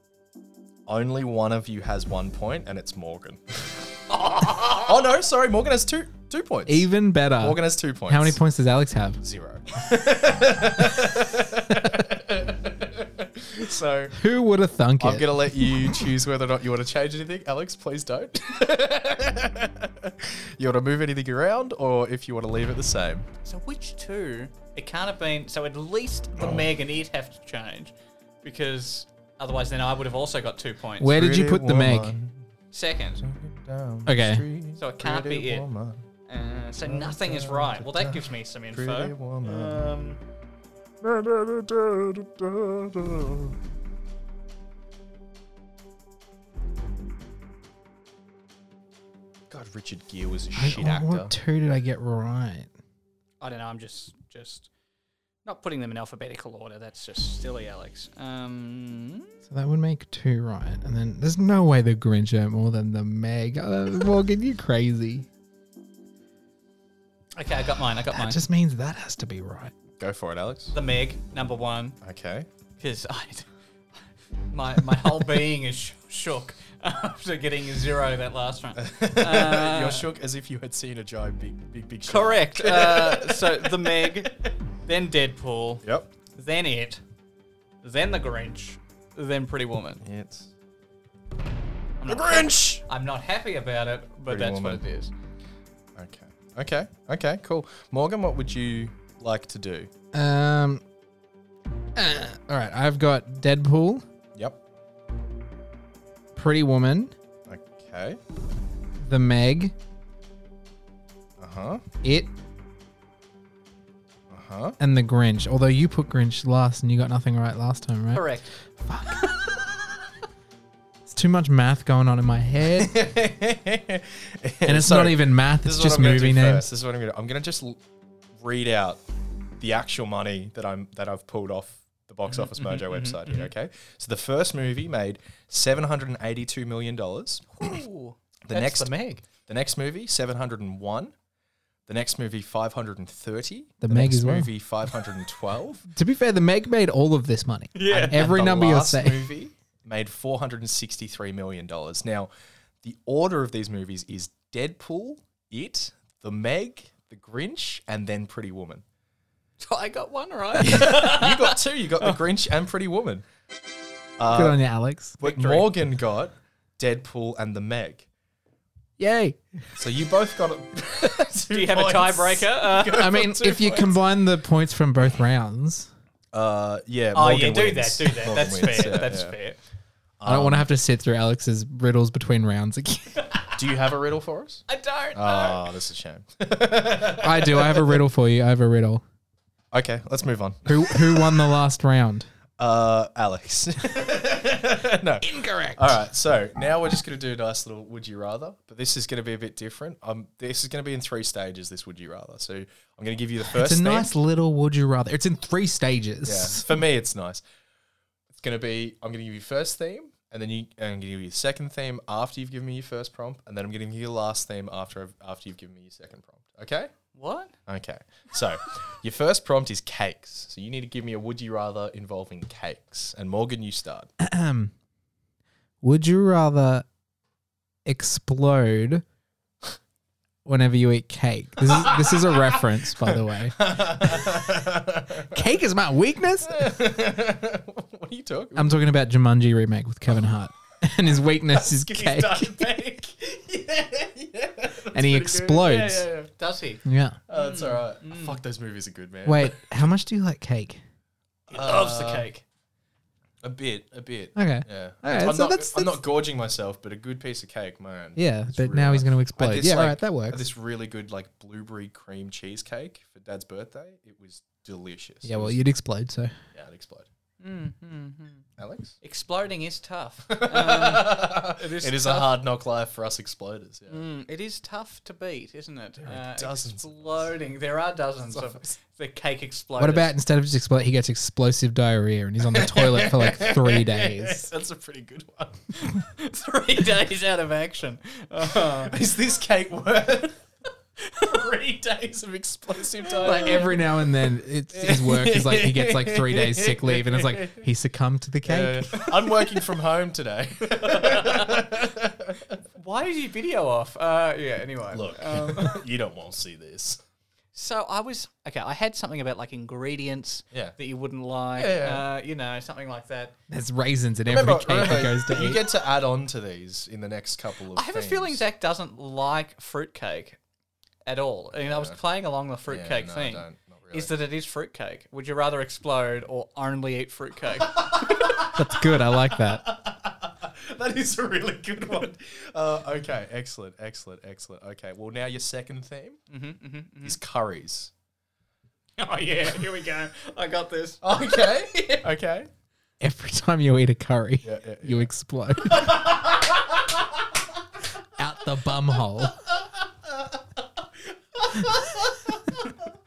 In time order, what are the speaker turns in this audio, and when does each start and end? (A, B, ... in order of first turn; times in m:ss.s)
0:00.9-0:04.0 A
0:04.1-0:05.0 B
0:04.6-0:08.4 A
0:06.7-0:09.2 C
0:09.2-0:14.2 A
0:14.1-0:16.1 C
0:15.0-0:23.3 A
0:23.4-0:31.2 B
0:26.4-0:26.6 A
0:31.0-0:32.1 C
0:31.0-0:32.5 A
0:32.7-0:33.2 B
0:33.2-0:36.0 A
0:34.0-0:34.4 C
0:34.8-0:35.6 B
0:36.3-0:40.2 B
0:36.8-0:39.9 A
0:41.0-0:43.6 A
0:49.5-0:51.3 A
0:50.5-0:52.7 C
0:53.4-0:54.7 B
0:55.4-0:59.3 B
0:59.5-1:05.3 C
1:07.4-1:08.4 B
1:08.1-1:09.7 C
1:10.0-1:10.7 A
1:10.7-1:12.0 B
1:12.0-1:12.5 A
1:12.8-1:13.5 B
1:14.5-1:20.0 B
1:18.8-1:24.5 A
1:22.1-1:24.3 B
1:24.8-1:27.0 B
1:25.8-1:26.1 A
1:27.8-1:30.0 B
1:30.0-1:30.5 A
1:32.0-1:35.1 B
1:32.1-1:32.8 A
1:34.3-1:34.8 A
1:36.0-1:39.9 A
1:40.1-1:40.8 C
1:41.9-1:44.0 C
1:46.3-1:47.1 C
1:47.5-1:48.2 A
1:49.0-1:49.7 C
1:51.4-1:51.8 A
1:52.0-1:52.3 C
1:54.3-1:54.8 A
1:54.8-1:58.3 C
1:58.1-1:58.5 B
1:58.8-1:59.3 C
2:01.1-2:02.9 C
2:02.8-2:07.8 A
2:04.6-2:06.6 C
2:08.4-2:09.0 A
2:09.6-2:17.6 A
2:12.3-2:13.5 B
2:17.6-2:19.2 B
2:18.5-2:21.1 A
2:21.9-2:25.9 A
2:23.8-2:24.5 C
2:25.9-2:29.3 C
2:27.7-2:28.3 B
2:27.9-2:32.3 A
2:32.8-2:38.8 A
2:39.6-2:41.6 B
2:40.7-2:43.2 A
2:44.2-2:44.6 A
2:44.3-2:45.2 C
2:45.2-2:48.0 A
2:45.2-2:45.7 B
2:49.0-2:49.8 C
2:49.8-2:54.0 A
2:51.5-2:53.1 B
2:53.0-2:55.9 C
2:56.3-2:59.4 A
2:57.1-2:59.6 B
3:00.2-3:00.7 A
3:00.2-3:03.2 C
3:03.5-3:08.0 A
3:04.7-3:05.6 B
3:07.2-3:09.0 C
3:09.7-3:11.5 A
3:10.6-3:12.3 C
3:12.6-3:24.2 A
3:15.2-3:16.0 C
3:23.4-3:26.6 C
3:26.2-3:27.4 A
3:28.3-3:36.9 A
3:37.1-3:37.5 B
3:37.6-3:44.1 A
3:44.2-3:44.7 C
3:45.8-3:46.8 C
3:47.8-3:49.0 C
3:50.4-3:54.7 C
3:51.6-3:55.5 A
3:55.2-3:56.7 C
3:56.4-3:58.7 A
3:58.5-4:02.7 C
4:01.5-4:06.3 A
4:04.9-4:06.1 C
4:06.4-4:08.4 B
4:06.8-4:07.2 C
4:07.3-4:09.9 A
4:09.2-4:10.8 C
4:11.5-4:12.3 A
4:11.5-4:12.4 B
4:13.4-4:25.6 A
4:14.4-4:16.0 C
4:18.2-4:20.5 C
4:25.2-4:26.3 C
4:26.5-4:27.1 A
4:27.4-4:28.4 B
4:28.6-4:29.0 A
4:29.0-4:32.4 B
4:30.3-4:34.0 A
4:33.9-4:40.1 B
4:36.0-4:37.4 A
4:38.2-4:38.7 A
4:39.8-4:44.5 C
4:42.5-4:45.7 A
4:45.7-4:48.9 B
4:48.6-4:50.4 A
4:51.1-4:57.6 A
4:53.1-4:53.7 B
4:53.2-4:59.0 C
4:58.4-5:02.6 A
5:00.8-5:01.6 B
5:02.8-5:05.8 B
5:04.9-5:07.0 A
5:07.5-5:13.3 B
5:11.5-5:12.0 A
5:13.5-5:15.7 C
5:14.3-5:18.4 A
5:17.7-5:20.4 B
5:21.0-5:28.4 B
5:21.7-5:22.0 A
5:22.7-5:24.1 A
5:27.6-5:36.2 A
5:28.5-5:29.6 C
5:36.3-5:37.2 B
5:37.0-5:37.9 A
5:39.0-5:41.8 B
5:41.0-5:42.5 A
5:43.0-5:46.0 C
5:44.4-5:47.3 A
5:48.2-5:49.4 C
5:49.4-5:52.9 A